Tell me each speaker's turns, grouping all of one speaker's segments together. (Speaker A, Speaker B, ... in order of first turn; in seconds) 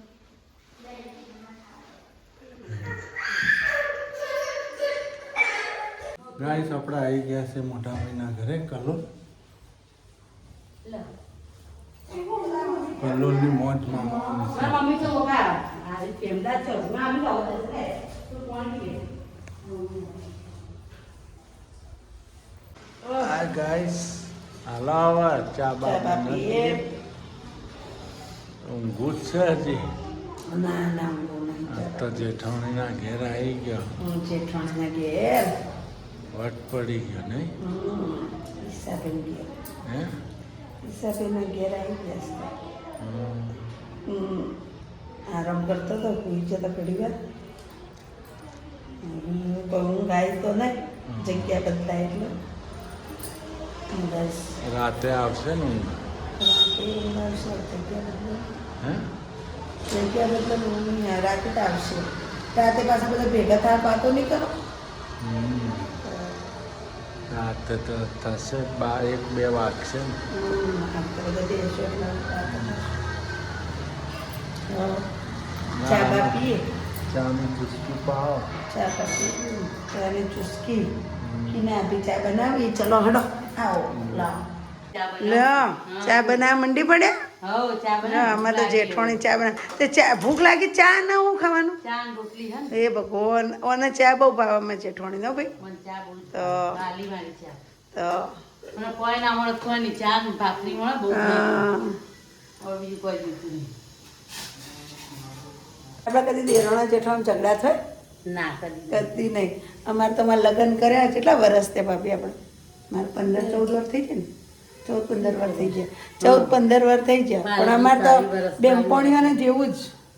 Speaker A: 2.7-3.0, 6.4-9.0, 13.0-15.0, 23.2-26.8, 28.6-29.9, 31.7-33.9, 36.3-37.5, 39.9-40.1, 43.0-43.7, 51.1-51.6, 54.6-56.0, 58.8-59.1, 65.2-65.9, 67.3-70.2, 72.5-72.8, 75.8-76.4, 77.1-78.5, 81.2-81.6, 83.9-84.3
Speaker B: 12.1-14.5, 23.1-23.4, 25.8-26.8, 30.5-32.3, 34.0-35.5, 37.6-39.5, 40.8-42.5, 44.1-44.5, 45.3-47.1, 49.0-52.3, 53.9-54.5, 56.4-58.4, 59.9-64.5, 66.0-66.5, 70.3-72.9, 74.7-75.0, 75.8-76.6, 78.7-80.9, 81.5-84.4, 85.2-87.1, 88.0-91.8, 92.7-95.5, 96.3-96.8, 97.9-98.3, 101.1-102.0, 106.0-107.8, 108.9-112.3, 112.9-114.3, 114.8-119.9
Speaker C: 14.5-19.0, 19.7-20.1, 84.9-86.4, 87.4-89.3, 91.8-92.7, 95.6-97.6, 98.7-101.7, 102.6-103.7, 108.2-109.1, 113.2-113.6, 115.2-116.5, 117.4-119.3